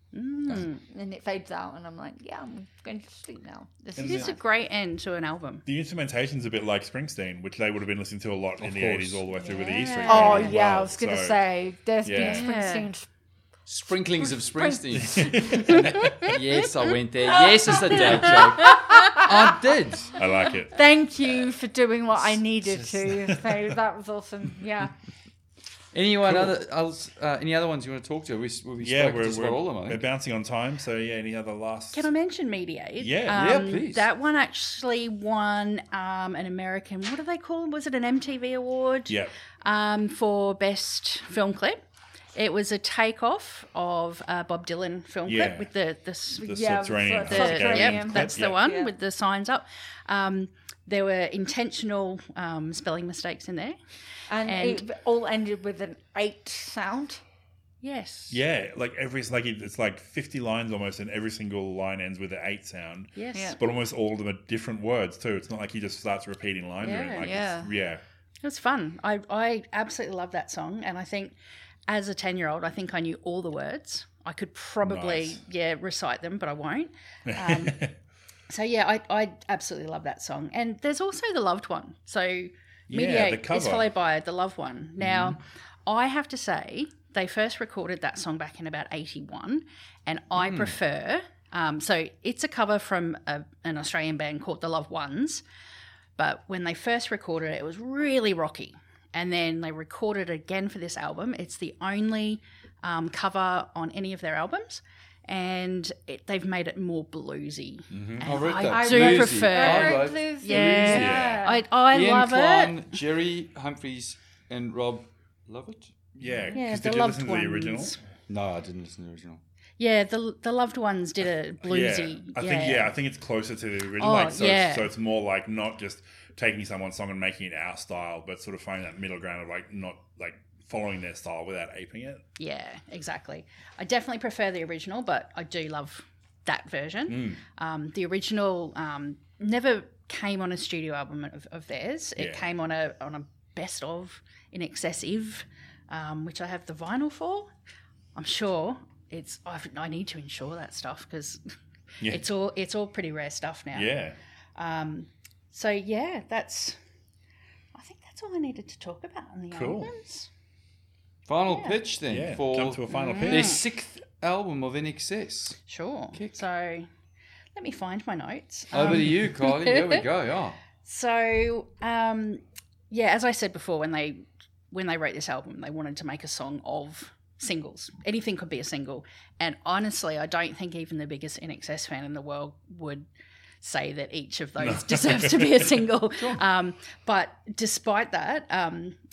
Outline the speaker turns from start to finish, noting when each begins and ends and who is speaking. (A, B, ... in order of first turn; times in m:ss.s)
0:00.1-0:00.8 A
0:00.8-0:04.4 B
0:04.0-0:04.3 C
0:04.0-0:05.6 A
0:05.6-0:11.4 C
0:08.6-0:09.2 D
0:09.3-0:10.6 A
0:10.0-0:13.1 B
0:12.0-0:12.4 C
0:12.2-0:12.9 A
0:13.6-0:20.1 D
0:14.2-0:15.6 B
0:15.0-0:16.2 C
0:17.3-0:19.5 B
0:18.3-0:19.0 A
0:20.1-0:20.8 C
0:20.7-0:24.9 B
0:22.6-0:23.1 D
0:25.9-0:30.0 D
0:28.8-0:32.1 C
0:31.9-0:41.8 A
0:33.0-0:33.5 C
0:33.3-0:34.1 D
0:42.3-0:46.5 A
0:45.2-0:45.7 C
0:46.4-0:48.9 B
0:46.4-0:48.5 C
0:47.2-0:53.8 A
0:54.3-0:57.2 B
0:54.4-0:54.8 A
0:57.8-0:58.4 A
0:58.3-1:08.0 C
1:03.1-1:03.6 A
1:06.8-1:07.3 A
1:07.2-1:07.7 B
1:08.4-1:11.3 A
1:11.9-1:17.8 A
1:14.8-1:15.4 C
1:17.3-1:17.9 C
1:18.5-1:35.4 A
1:22.9-1:23.8 C
1:25.0-1:25.4 D
1:30.4-1:30.7 D
1:36.2-1:52.8 A
1:47.9-1:48.3 C
1:48.2-1:55.9 D
1:48.5-1:51.6 B
1:50.9-1:51.4 C
1:56.2-1:58.0 C
1:56.5-1:58.0 A
1:58.3-1:59.4 D
1:59.8-2:02.9 A
2:01.6-2:12.2 C
2:04.0-2:04.9 A
2:12.4-2:27.5 A
2:17.1-2:17.4 C
2:22.2-2:22.5 C
2:28.1-2:31.4 A
2:32.1-2:33.9 A
2:33.7-2:34.2 C
2:34.6-2:36.8 A
2:37.7-2:40.3 A
2:39.5-2:39.9 C
2:41.3-2:45.6 D
2:41.5-2:41.8 A
2:42.1-2:43.6 C
2:42.9-2:43.6 A
2:45.7-2:46.9 A
2:46.1-2:46.4 D
2:47.5-2:50.0 A
2:48.7-2:50.6 D
2:50.8-3:03.1 A
3:03.6-3:09.0 A
3:04.6-3:06.4 C